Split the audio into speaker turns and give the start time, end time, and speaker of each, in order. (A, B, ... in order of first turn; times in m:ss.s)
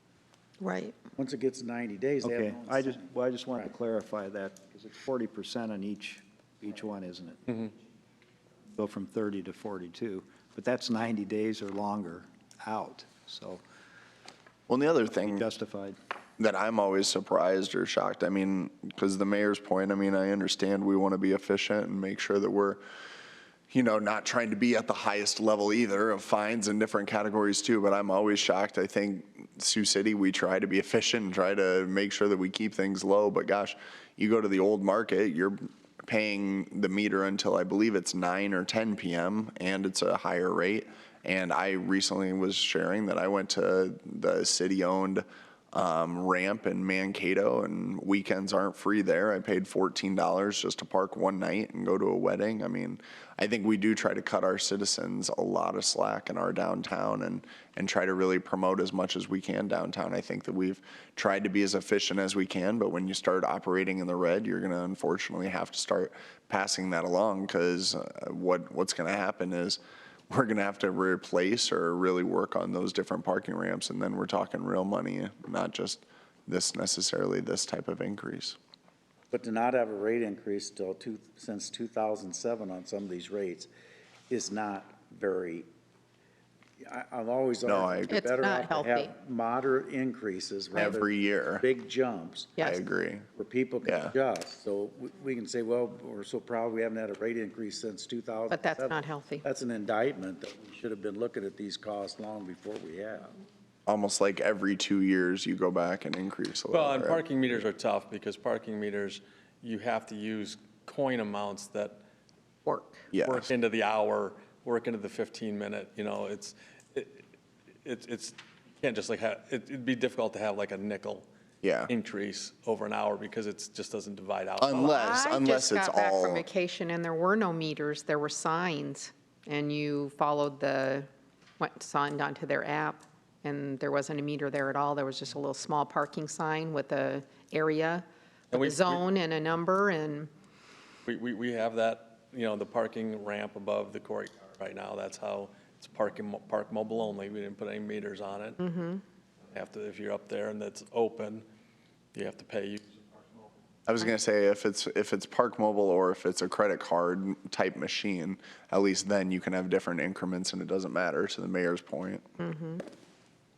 0:00.6-0:01.0 A
0:01.2-0:03.1 B
0:02.2-0:07.7 C
0:08.7-0:13.6 C
0:14.7-0:15.4 D
0:15.2-0:16.0 C
0:16.4-0:22.8 D
0:23.7-1:18.6 D
1:19.3-1:23.7 B
1:24.3-1:25.7 B
1:26.8-1:31.1 B
1:27.6-1:28.2 D
1:28.1-1:29.1 A
1:30.8-1:31.6 D
1:31.6-1:32.6 B
1:32.6-1:33.2 D
1:33.4-1:43.3 B
1:33.8-1:34.1 D
1:38.5-1:39.4 A
1:43.9-1:47.2 D
1:46.7-1:52.0 E
1:52.6-1:53.1 A
1:53.1-1:53.5 D
1:53.2-1:57.2 E
1:57.8-2:01.3 E
2:01.6-2:01.9 D
2:01.9-2:04.9 E
2:04.6-2:06.4 D
2:04.8-2:11.1 A
2:11.6-2:20.3 A
2:18.5-2:19.0 E
2:21.0-2:28.6 E
2:28.6-2:29.0 A
2:29.5-2:31.4 E
2:32.1-2:33.5 E
2:33.9-2:42.2 D
2:42.4-2:42.8 A